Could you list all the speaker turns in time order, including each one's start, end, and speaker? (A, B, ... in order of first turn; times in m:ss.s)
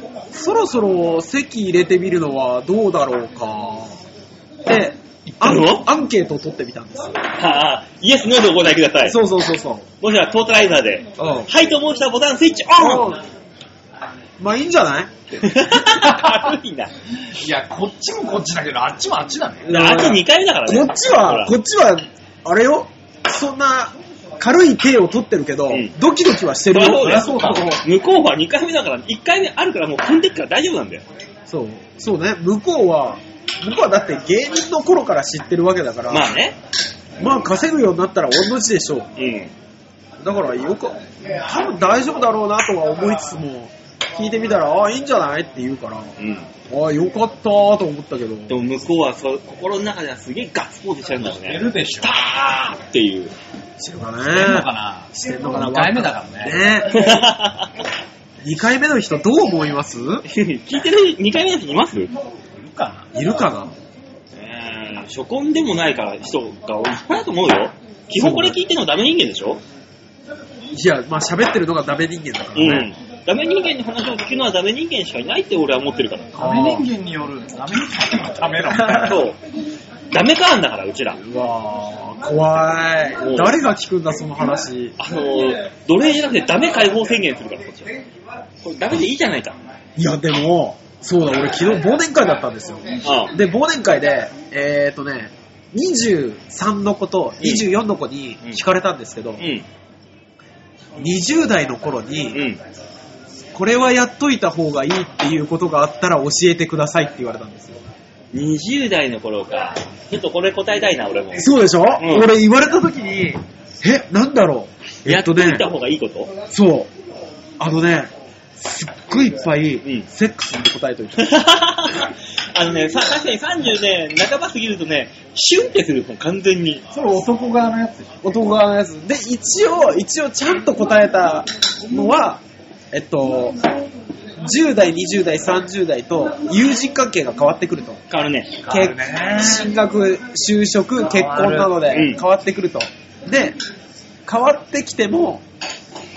0:00.3-0:04.0 A
0:04.6-0:07.2 A
0:05.4-0:05.9 B
0:07.3-0:09.2 B
0:09.0-0:09.8 A
0:10.0-0:13.2 B
0:11.2-0:11.5 A
0:12.7-0:13.2 A
0:14.4-0:15.1 A
0:15.3-0:16.9 B
0:15.9-0:16.4 C
0:17.3-0:19.7 C
0:19.6-0:27.7 A
0:19.7-0:21.5 B
0:26.7-0:31.0 B
0:26.8-0:27.8 C
0:31.5-0:36.3 A
0:36.1-0:36.6 B
0:37.2-0:39.1 A
0:39.2-0:39.5 B
0:40.2-0:46.1 A
0:46.2-0:46.5 B
0:46.7-0:48.6 A
0:48.5-0:53.3 B
0:51.2-0:52.1 C
0:53.8-0:57.2 A
0:54.2-0:56.6 C
0:56.9-0:57.7 B
0:58.4-1:00.2 A
1:00.3-1:02.1 B
1:02.5-1:03.1 C
1:03.1-1:03.7 A
1:04.3-1:09.6 B
1:08.1-1:08.6 A
1:10.7-1:12.9 A
1:12.5-1:16.4 B
1:16.3-1:19.2 C
1:16.4-1:16.9 A
1:18.7-1:19.2 A
1:19.0-1:19.4 B
1:20.1-1:21.2 B
1:21.2-1:24.9 A
1:23.2-1:23.6 B
1:25.0-1:27.9 B
1:28.6-1:29.6 B
1:30.0-1:39.4 A
1:33.0-1:33.3 B
1:37.4-1:37.7 B
1:39.4-1:39.6 B
1:41.0-1:42.4 A
1:42.3-1:42.6 B
1:43.5-1:47.8 A
1:48.3-1:52.3 B
1:51.4-1:55.7 A
1:55.0-1:56.3 B
1:56.5-1:56.9 A
1:57.6-2:01.4 A
2:01.2-2:06.8 B
2:06.9-2:08.3 C
2:08.2-2:13.6 A
2:14.4-2:18.0 A
2:18.1-2:18.5 B
2:18.6-2:19.7 C
2:18.7-2:23.6 A
2:21.0-2:21.8 C
2:21.9-2:22.2 B
2:24.2-2:25.4 A